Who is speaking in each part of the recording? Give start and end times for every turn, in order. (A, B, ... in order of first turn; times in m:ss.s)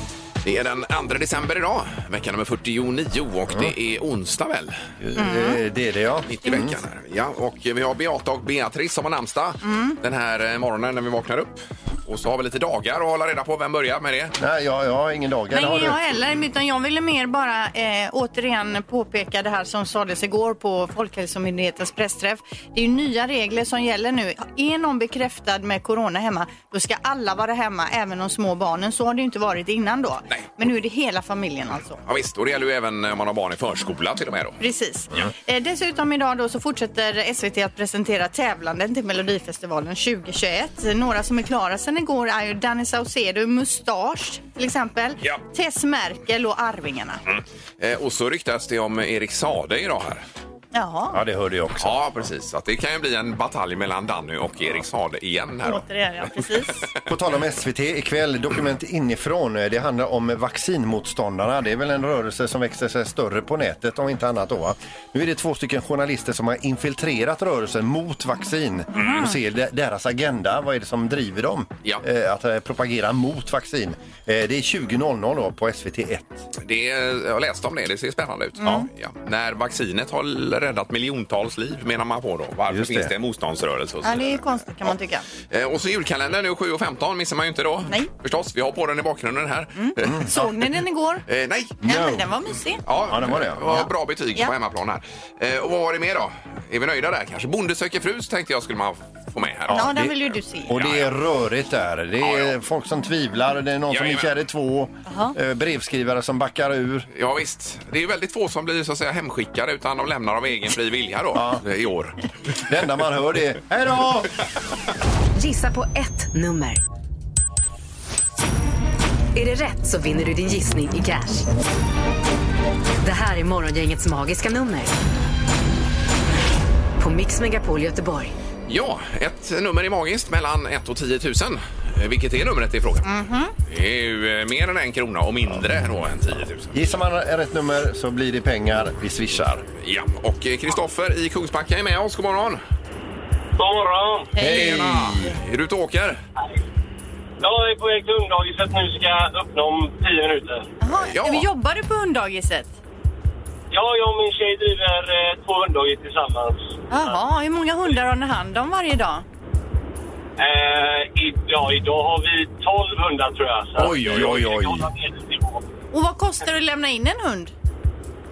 0:00.4-0:04.7 A
0:05.0-0:06.8 B
0:05.1-0:05.6 C
0:06.3-0:14.3 A
0:09.6-0:10.0 C
0:14.4-0:16.0 B
0:15.5-0:32.0 C
0:32.0-0:34.6 A
0:34.6-0:47.2 C
0:47.2-0:50.2 A
0:50.7-0:51.2 C
0:51.1-0:52.2 B
0:51.8-0:57.0 A
0:55.6-0:56.9 C
0:57.1-1:16.4 B
1:08.9-1:09.4 C
1:16.6-1:24.4 A
1:18.6-1:18.9 C
1:22.7-1:23.1 B
1:24.0-1:25.2 C
1:25.5-1:30.3 A
1:29.8-1:31.2 C
1:30.0-1:30.5 B
1:31.3-1:31.8 A
1:31.8-1:32.2 B
1:31.8-1:32.8 C
1:32.8-1:40.1 A
1:33.1-1:33.8 B
1:33.7-1:34.5 C
1:39.7-1:40.1 B
1:39.7-1:40.7 C
1:40.7-1:47.1 B
1:40.7-1:41.1 A
1:42.2-1:42.5 A
1:43.9-1:44.3 A
1:45.0-1:45.3 C
1:47.1-1:52.2 A
1:51.3-1:51.6 B
1:52.6-1:54.3 B
1:55.3-1:56.8 D
1:59.3-2:01.5 D
2:03.0-2:04.9 D
2:07.0-2:08.3 D
2:08.7-2:13.0 A
2:13.0-2:13.5 C
2:13.6-2:16.8 A
2:16.7-2:19.6 B
2:19.8-2:22.6 A
2:23.6-2:24.3 E
2:24.4-2:24.8 C
2:24.4-2:26.2 A
2:24.4-2:25.4 B
2:27.4-2:30.7 E
2:30.8-2:32.8 C
2:31.0-2:31.4 A
2:33.7-2:37.2 E
2:36.9-2:39.2 C
2:40.4-2:45.6 E
2:43.8-2:44.9 A
2:45.9-2:47.5 C